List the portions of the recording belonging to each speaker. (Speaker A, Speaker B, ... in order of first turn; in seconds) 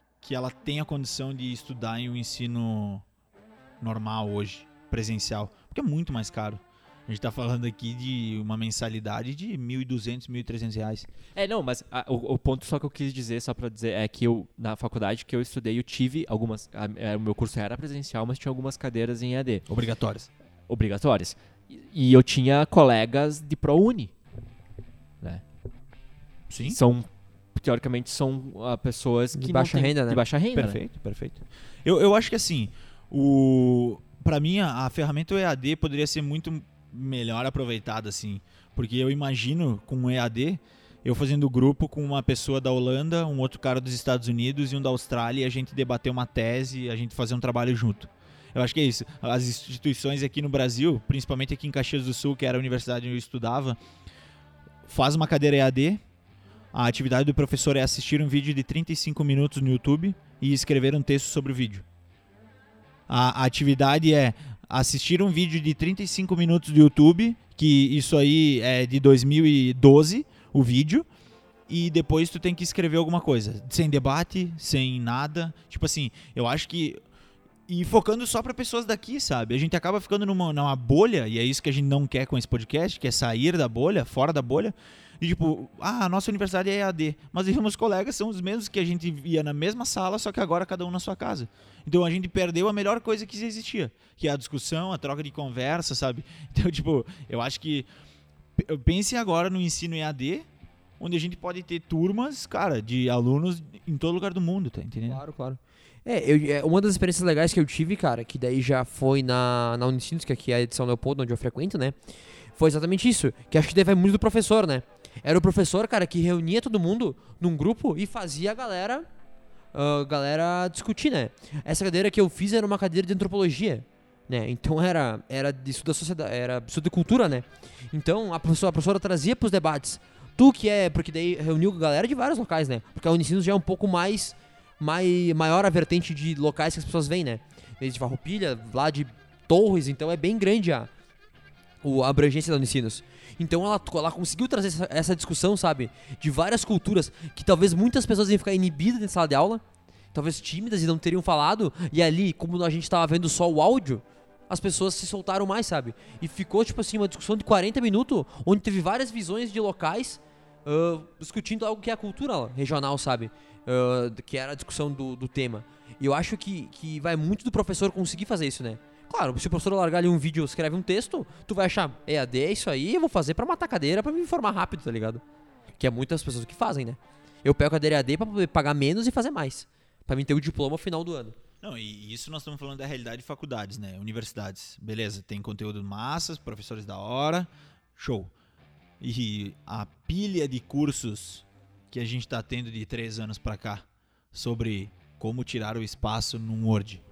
Speaker A: 0.2-3.0, 3.8-11.1, 19.7-20.3, 26.5-26.8, 30.5-53.8, 54.9-56.0, 56.7-61.8, 63.1-71.0, 71.7-77.0, 77.7-97.9, 98.6-100.5, 101.0-105.2, 181.6-188.3, 189.0-197.0
Speaker B: 11.3-19.7, 20.7-24.1, 26.6-30.8
Speaker C: 29.3-30.2, 105.1-112.0, 112.5-119.1, 119.7-140.9, 141.8-149.6, 150.1-175.2, 175.8-181.3